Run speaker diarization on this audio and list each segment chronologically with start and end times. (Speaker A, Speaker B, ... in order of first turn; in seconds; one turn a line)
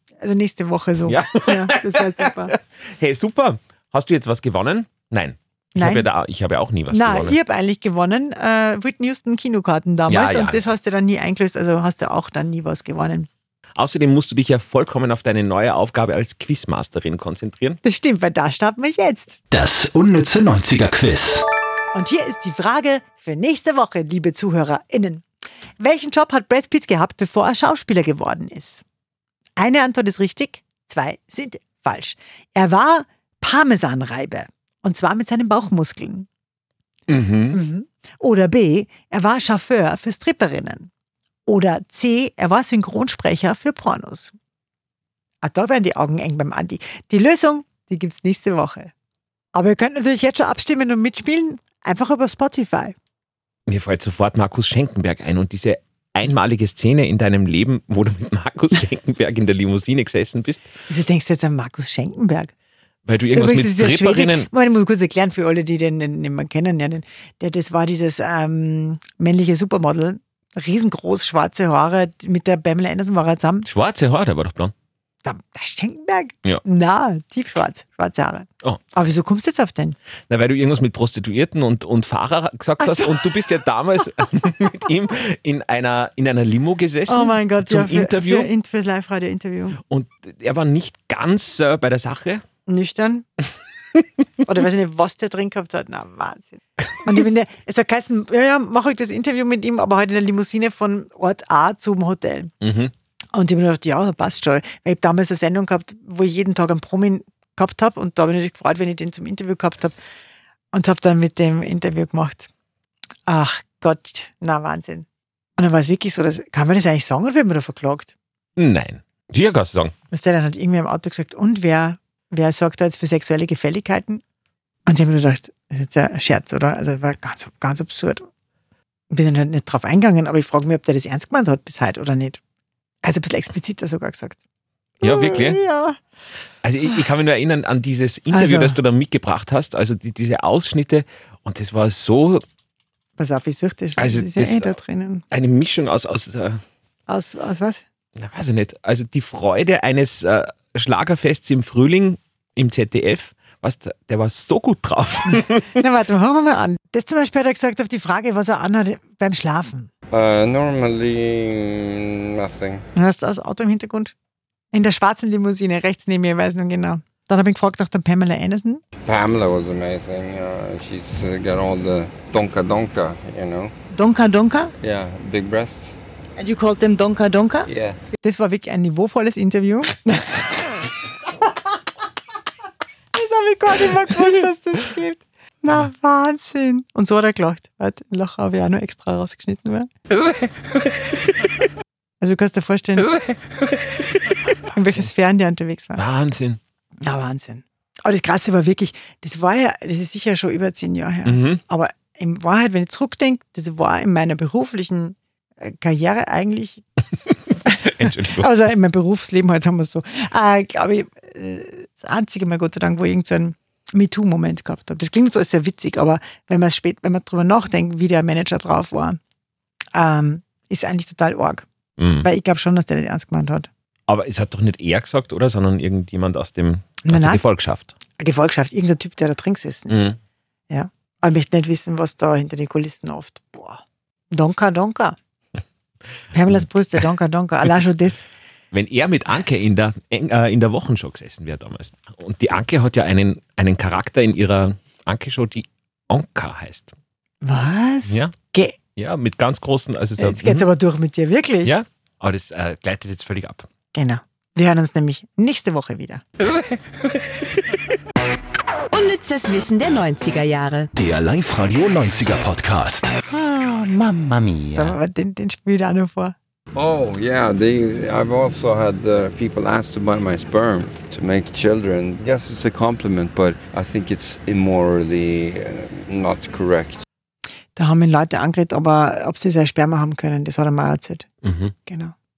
Speaker A: 0.2-2.6
Speaker B: 1.1-7.4
Speaker A: 5.8-6.1
Speaker A: 6.9-13.3
Speaker B: 10.1-10.6
Speaker B: 13.8-17.8
Speaker A: 17.8-19.4
Speaker C: 19.5-21.4
Speaker A: 21.9-25.2
Speaker A: 25.8-28.8
Speaker A: 29.6-36.3
Speaker B: 37.1-37.6
Speaker A: 37.5-40.9
Speaker A: 41.5-44.3
Speaker A: 45.4-48.9
Speaker A: 49.5-52.9
Speaker B: 53.7-60.6
Speaker A: 60.9-62.5
Speaker B: 63.1-64.5
Speaker A: 63.3-73.7
Speaker B: 73.7-74.7
Speaker A: 75.2-80.0
Speaker B: 80.3-88.5
Speaker A: 82.8-83.4
Speaker A: 87.1-89.8
Speaker B: 89.9-92.4
Speaker A: 92.7-93.3
Speaker A: 94.4-102.5
Speaker B: 102.6-102.9
Speaker A: 103.3-110.0
Speaker A: 110.7-112.5
Speaker A: 113.3-115.1
Speaker A: 115.6-118.1
Speaker B: 118.6-119.9
Speaker A: 120.1-124.2
Speaker A: 124.9-128.3
Speaker A: 129.1-132.4
Speaker A: 133.0-134.4
Speaker B: 135.0-135.6
Speaker A: 135.0-136.0
Speaker B: 136.6-142.4
Speaker A: 138.3-138.8
Speaker A: 143.2-145.2
Speaker B: 144.0-144.7
Speaker B: 145.3-146.6
Speaker A: 147.1-147.8
Speaker B: 148.2-155.7
Speaker A: 155.7-159.9
Speaker D: 160.1-162.8
Speaker A: 162.9-164.1
Speaker A: 164.7-168.8
Speaker D: 169.1-173.7
Speaker A: 173.9-174.7
Speaker D: 174.8-175.9
Speaker A: 176.4-177.7
Speaker A: 178.2-180.9
Speaker A: 183.1-189.9
Speaker A: 192.2-193.1
Speaker A: 194.7-196.0
Speaker B: 196.0-196.6
Speaker A: 197.0-206.8
Speaker B: 201.2-201.6
Speaker A: 207.7-219.2
Speaker B: 207.9-208.5
Speaker A: 219.9-221.7
Speaker B: 222.0-222.3
Speaker A: 222.2-223.7
Speaker B: 224.1-227.9
Speaker A: 227.1-227.4
Speaker A: 228.2-230.1
Speaker B: 229.9-230.2
Speaker A: 230.7-235.2
Speaker A: 236.3-238.2
Speaker B: 238.7-246.9
Speaker A: 247.4-248.8
Speaker B: 248.1-248.3
Speaker B: 249.0-250.7
Speaker A: 250.2-251.8
Speaker B: 251.7-253.7
Speaker A: 253.9-256.2
Speaker E: 258.9-260.9
Speaker C: 261.0-263.1
Speaker A: 264.7-266.4
Speaker D: 266.8-277.0
Speaker A: 277.8-281.3
Speaker B: 281.4-281.7
Speaker A: 281.9-282.1